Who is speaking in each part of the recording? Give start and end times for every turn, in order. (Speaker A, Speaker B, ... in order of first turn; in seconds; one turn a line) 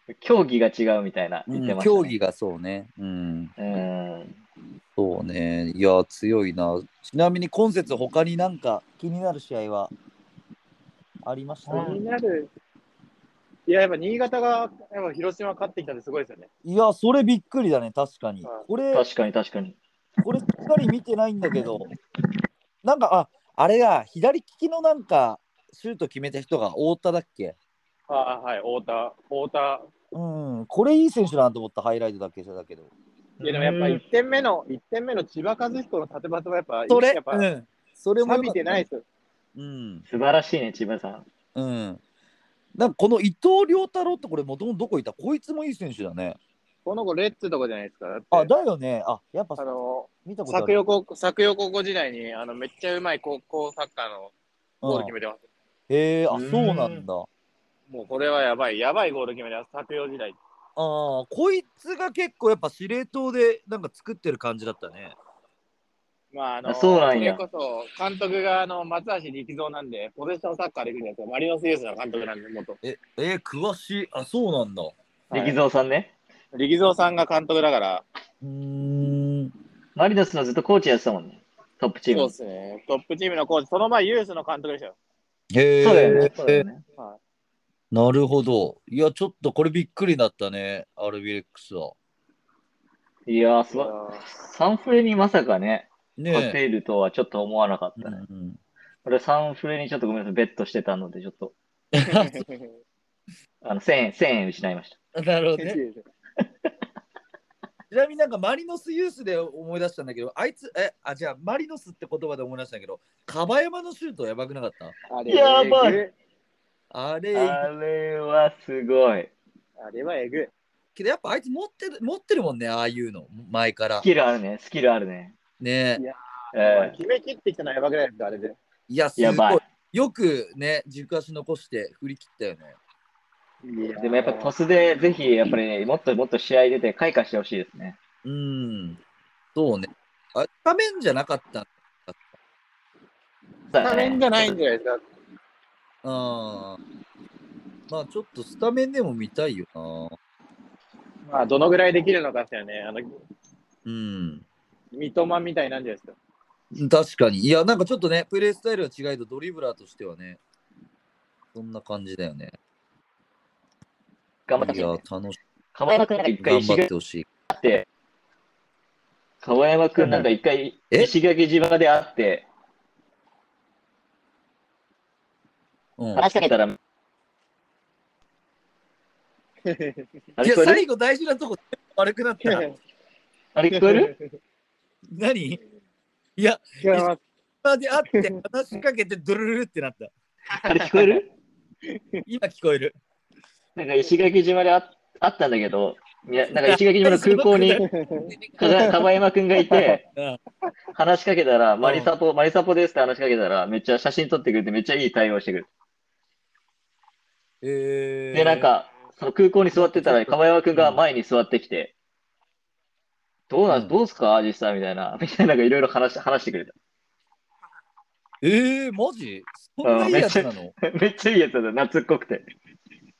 Speaker A: 0.1-2.1
Speaker B: 1.5-3.5
Speaker A: 3.6-4.4
Speaker B: 5.0-9.9
Speaker B: 11.2-11.9
Speaker C: 11.7-12.5
Speaker A: 11.7-12.0
Speaker C: 13.7-16.5
Speaker B: 16.6-19.1
Speaker A: 18.9-19.8
Speaker B: 20.2-21.9
Speaker B: 22.8-27.6
Speaker C: 28.1-29.9
Speaker B: 30.1-32.9
Speaker A: 33.4-34.0
Speaker C: 33.4-37.5
Speaker B: 36.9-38.9
Speaker C: 38.2-39.0
Speaker B: 39.6-40.0
Speaker A: 40.1-41.3
Speaker B: 41.5-42.0
Speaker B: 42.8-46.4
Speaker C: 46.9-48.5
Speaker B: 48.3-49.6
Speaker C: 49.6-55.5
Speaker B: 50.2-50.8
Speaker B: 54.8-55.1
Speaker B: 55.9-57.3
Speaker A: 56.3-57.1
Speaker C: 57.9-60.4
Speaker B: 60.8-65.2
Speaker C: 66.3-72.8
Speaker A: 66.7-67.4
Speaker B: 72.8-75.0
Speaker C: 75.3-75.6
Speaker A: 75.3-76.1
Speaker C: 76.5-78.0
Speaker B: 78.4-79.5
Speaker A: 80.0-82.3
Speaker C: 82.1-85.0
Speaker B: 85.5-86.7
Speaker A: 85.8-86.8
Speaker B: 87.9-92.0
Speaker A: 93.3-98.2
Speaker C: 93.7-94.2
Speaker B: 96.2-96.6
Speaker B: 98.0-98.6
Speaker A: 99.0-101.5
Speaker B: 101.9-102.5
Speaker C: 102.1-102.7
Speaker A: 103.6-105.0
Speaker B: 105.2-105.8
Speaker C: 105.6-106.0
Speaker B: 107.9-114.9
Speaker C: 115.1-116.1
Speaker A: 115.3-116.0
Speaker B: 116.9-117.7
Speaker A: 117.3-119.3
Speaker C: 119.8-120.5
Speaker B: 121.0-124.1
Speaker A: 124.0-125.3
Speaker B: 125.6-126.0
Speaker C: 126.0-128.6
Speaker A: 126.5-127.0
Speaker B: 128.9-132.8
Speaker A: 129.2-129.6
Speaker C: 133.6-134.5
Speaker A: 134.0-138.0
Speaker B: 138.2-139.0
Speaker B: 139.6-142.3
Speaker A: 143.7-144.5
Speaker C: 143.8-145.0
Speaker B: 146.0-146.8
Speaker B: 147.9-150.2
Speaker C: 151.3-153.1
Speaker B: 153.8-154.4
Speaker C: 154.9-156.2
Speaker B: 156.7-160.4
Speaker B: 161.5-162.6
Speaker A: 164.5-165.0
Speaker B: 164.6-165.4
Speaker A: 165.8-166.9
Speaker B: 166.4-167.3
Speaker A: 167.5-167.9
Speaker A: 169.4-172.5
Speaker B: 176.0-176.3
Speaker A: 176.2-176.8
Speaker C: 179.7-180.1
Speaker A: 180.4-180.8
Speaker B: 180.4-182.7
Speaker C: 182.4-182.8
Speaker A: 183.6-184.1
Speaker C: 183.7-184.2
Speaker B: 185.1-185.6
Speaker B: 186.4-187.1
Speaker C: 186.8-187.2
Speaker B: 187.6-190.1
Speaker A: 190.5-191.3
Speaker C: 191.9-192.2
Speaker B: 192.3-193.0
Speaker A: 193.8-197.8
Speaker B: 196.6-197.8
Speaker C: 197.8-198.9
Speaker A: 198.6-200.0
Speaker C: 199.7-200.0
Speaker B: 200.1-200.4
Speaker A: 201.0-205.7
Speaker B: 201.8-202.1
Speaker B: 207.6-208.7
Speaker A: 208.3-211.9
Speaker B: 209.7-211.0
Speaker A: 213.5-216.7
Speaker B: 213.7-213.9
Speaker B: 218.4-220.7
Speaker A: 219.8-222.5